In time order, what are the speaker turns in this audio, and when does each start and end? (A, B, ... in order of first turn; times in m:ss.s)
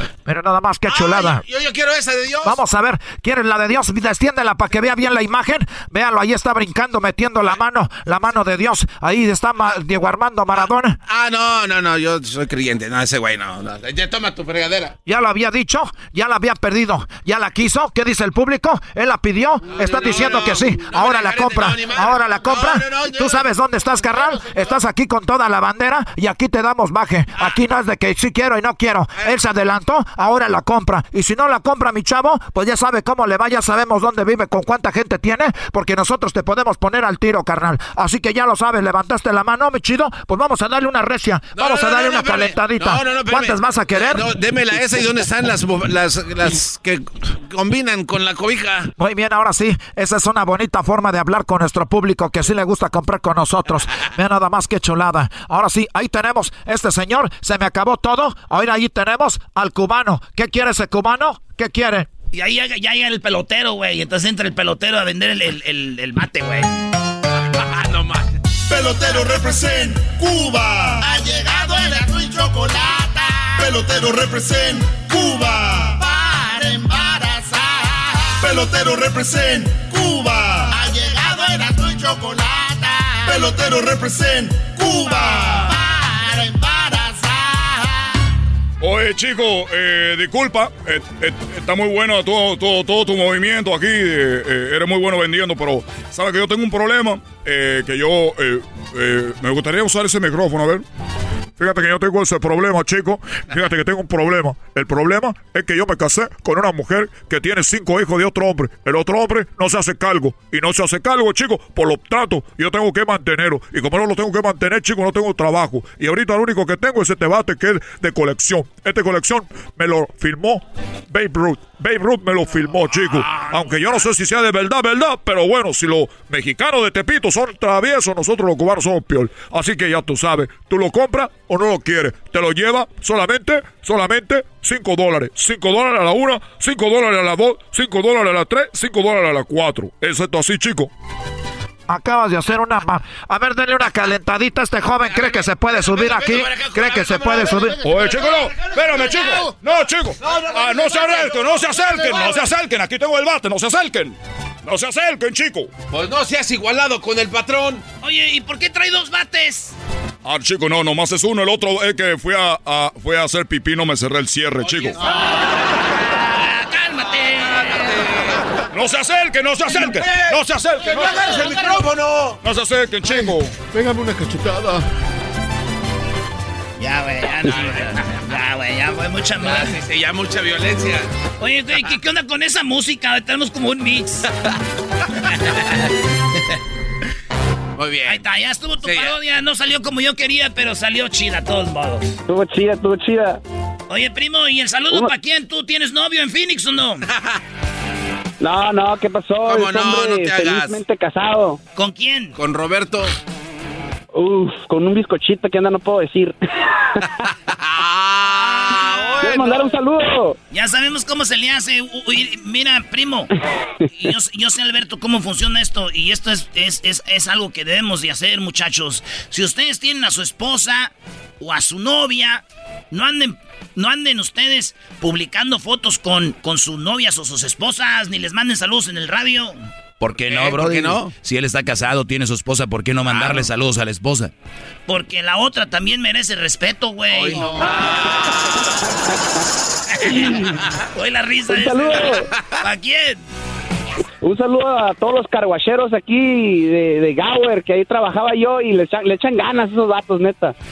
0:00.2-0:01.4 A
0:00.9-0:02.6 B
0:02.4-0:11.0 A
0:10.6-0:14.9 B
0:15.0-0:44.3 A
0:19.8-0:23.4 B
0:41.5-0:48.9 B
0:49.0-1:02.1 A
1:02.3-1:06.8 C
1:07.6-1:08.3 B
1:08.7-1:28.1 D
1:28.8-1:40.8 E
1:41.6-2:20.9 E
2:21.9-2:27.8 A
2:25.1-2:27.7 B
2:27.8-2:35.7 E
2:30.2-2:31.4 B
2:35.9-2:37.8 B
2:38.0-2:39.7 C
2:40.2-2:45.0 E
2:44.6-2:44.9 B
2:46.2-2:48.0 C
2:48.7-2:51.3 E
2:49.7-2:52.4 B
2:52.4-2:53.6 E
2:56.8-2:59.7 C
2:59.4-3:01.1 B
3:01.4-3:04.2 C
3:07.8-3:08.2 B
3:08.1-3:12.1 C
3:08.8-3:09.1 B
3:12.3-3:13.4 F
3:13.9-3:17.0 C
3:18.4-3:21.6 F
3:19.4-3:20.8 B
3:21.8-3:22.3 C
3:22.3-3:23.1 B
3:24.1-3:26.4 F
3:27.5-3:29.7 B
3:28.9-3:30.3 F
3:30.5-3:33.3 C
3:34.0-3:49.6 C
3:50.0-3:54.3 G
3:50.2-3:51.1 B
3:53.1-3:53.5 B
3:54.9-3:57.5 C
3:57.1-3:58.2 B
4:00.0-4:00.3 C
4:00.1-4:00.5 F
4:00.9-4:02.1 C
4:01.5-4:02.3 F
4:02.6-4:03.2 C
4:04.2-4:10.5 F